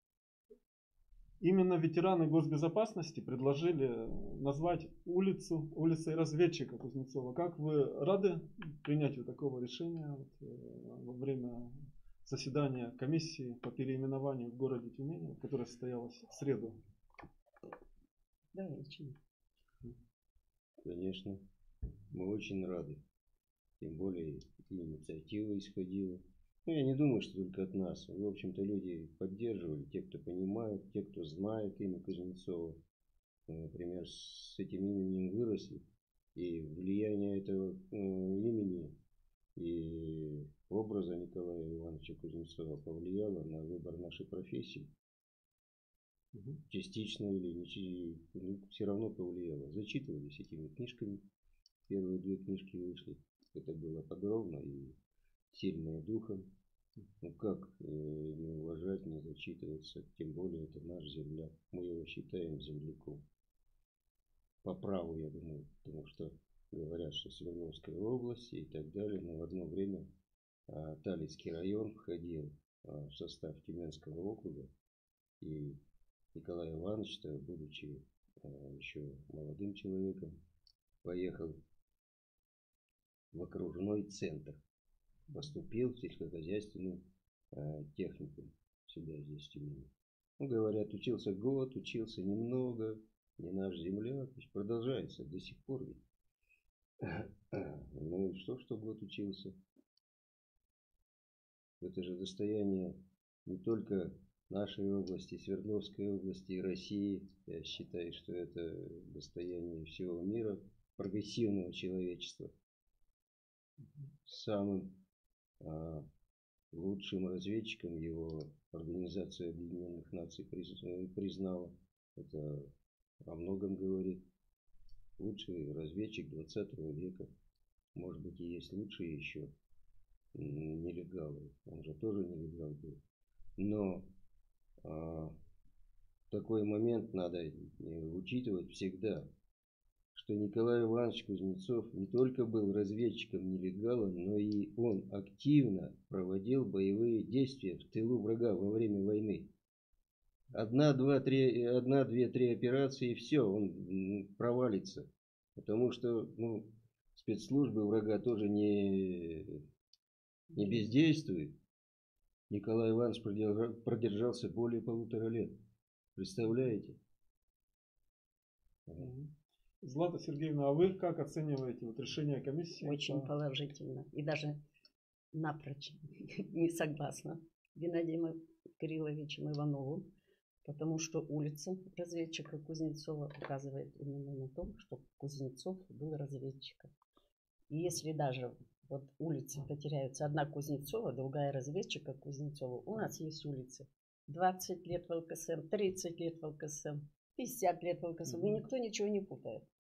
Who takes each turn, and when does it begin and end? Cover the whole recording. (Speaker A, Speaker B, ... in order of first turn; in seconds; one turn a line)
Speaker A: 1.4-16.8
Speaker B: 18.5-19.1
Speaker C: 20.8-21.4
Speaker C: 22.1-23.0
Speaker C: 23.8-32.8
Speaker C: 33.5-39.0
Speaker C: 39.5-44.9
Speaker A: 46.3-46.6
Speaker C: 46.7-51.3
Speaker C: 51.9-55.0
Speaker C: 55.5-56.5
Speaker C: 57.2-63.2
Speaker C: 64.6-70.1
Speaker C: 70.7-74.7
Speaker C: 75.4-75.8
Speaker C: 76.3-80.3
Speaker C: 81.0-81.6
Speaker C: 83.3-84.6
Speaker C: 85.3-96.0
Speaker C: 97.0-99.6
Speaker C: 101.8-112.5
Speaker A: 113.8-114.1
Speaker C: 114.2-115.0
Speaker C: 115.6-116.1
Speaker C: 116.7-124.2
Speaker C: 125.2-127.3
Speaker C: 127.9-129.5
Speaker C: 130.3-133.0
Speaker C: 133.6-134.1
Speaker C: 134.8-135.3
Speaker C: 136.3-139.3
Speaker C: 140.1-149.5
Speaker C: 150.5-159.6
Speaker C: 160.5-161.6
Speaker C: 162.5-165.6
Speaker C: 166.1-167.0
Speaker C: 168.9-169.1
Speaker A: 169.0-169.3
Speaker A: 169.8-173.3
Speaker B: 172.8-174.6
Speaker B: 175.3-180.1
Speaker B: 180.6-186.9
Speaker B: 187.7-199.7
Speaker A: 198.3-198.6